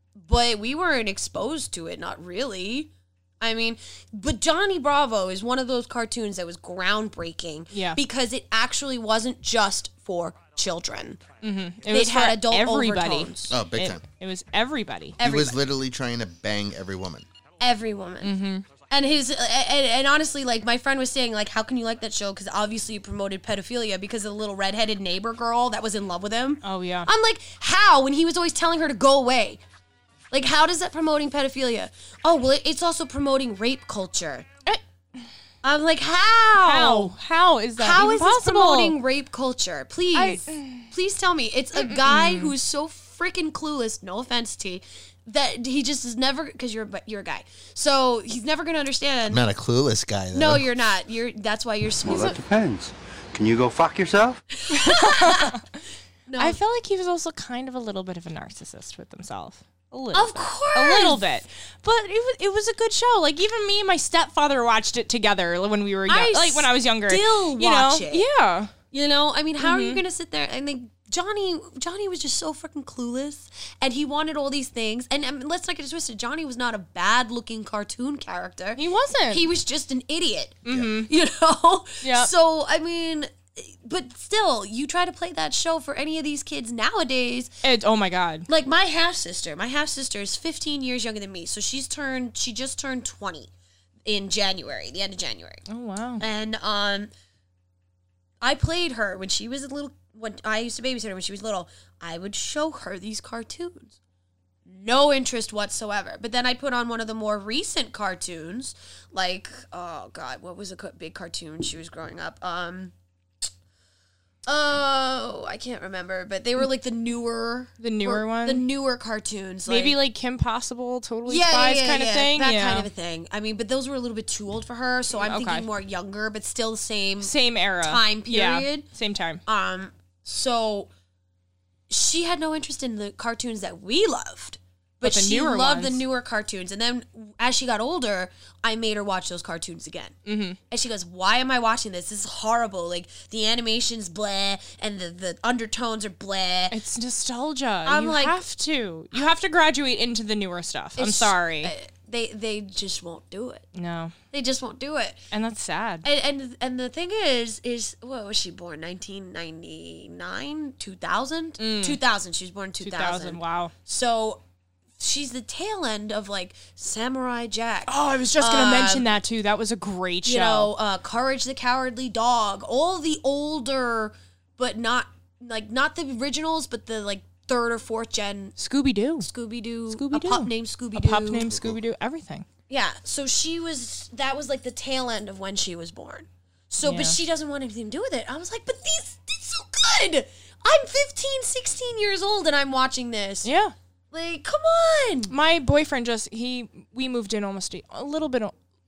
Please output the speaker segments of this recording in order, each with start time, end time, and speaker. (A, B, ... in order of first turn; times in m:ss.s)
0:00.2-0:11.2 A
0:07.7-0:08.0 B
0:11.4-0:15.2 B
0:11.9-0:13.5 A
0:13.5-0:14.0 C
0:15.2-0:17.2 C
0:15.2-0:15.6 A
0:17.6-0:29.6 A
0:18.2-0:18.6 B
0:26.6-0:27.1 B
0:30.3-0:34.5 A
0:35.6-0:37.1 A
0:36.6-0:39.0 B
0:37.8-0:49.4 A
0:40.1-0:40.9 B
0:41.7-0:42.5 B
0:49.3-0:50.7 C
0:50.3-0:52.4 A
0:52.0-0:54.4 D
0:54.6-0:55.6 A
0:54.7-0:55.6 B
0:56.3-0:56.6 A
0:56.4-1:08.7 B
1:00.1-1:01.2 A
1:06.1-1:08.2 A
1:08.9-1:27.6 A
1:09.6-1:10.0 B
1:18.8-1:19.4 B
1:20.6-1:21.1 B
1:22.0-1:22.3 B
1:27.6-1:28.5 B
1:28.5-1:33.5 A
1:34.0-1:35.6 A
1:35.7-1:36.2 B
1:36.2-1:37.1 A
1:38.4-1:43.9 A
1:44.7-1:52.9 A
1:54.5-2:00.0 A
1:57.8-1:58.6 B
1:59.7-2:02.9 B
2:01.2-2:08.8 A
2:05.2-2:05.6 B
2:07.2-2:09.4 B
2:09.5-2:10.9 A
2:11.9-2:20.1 A
2:15.0-2:16.0 B
2:20.2-2:20.6 B
2:20.7-2:26.8 A
2:26.7-2:31.7 B
2:27.8-2:28.4 A
2:31.0-2:33.6 A
2:33.7-2:34.1 B
2:34.3-2:35.2 A
2:35.3-2:36.0 B
2:36.0-2:44.4 A
2:41.6-2:42.0 B
2:42.8-2:43.7 B
2:45.0-2:49.1 A
2:47.9-2:50.7 B
2:50.2-2:58.6 A
2:58.6-2:59.3 B
2:59.2-3:01.5 A
2:59.9-3:02.4 B
3:01.5-3:01.8 C
3:02.7-3:13.5 A
3:06.8-3:07.2 B
3:13.4-3:13.7 B
3:14.1-3:15.3 A
3:15.3-3:18.5 B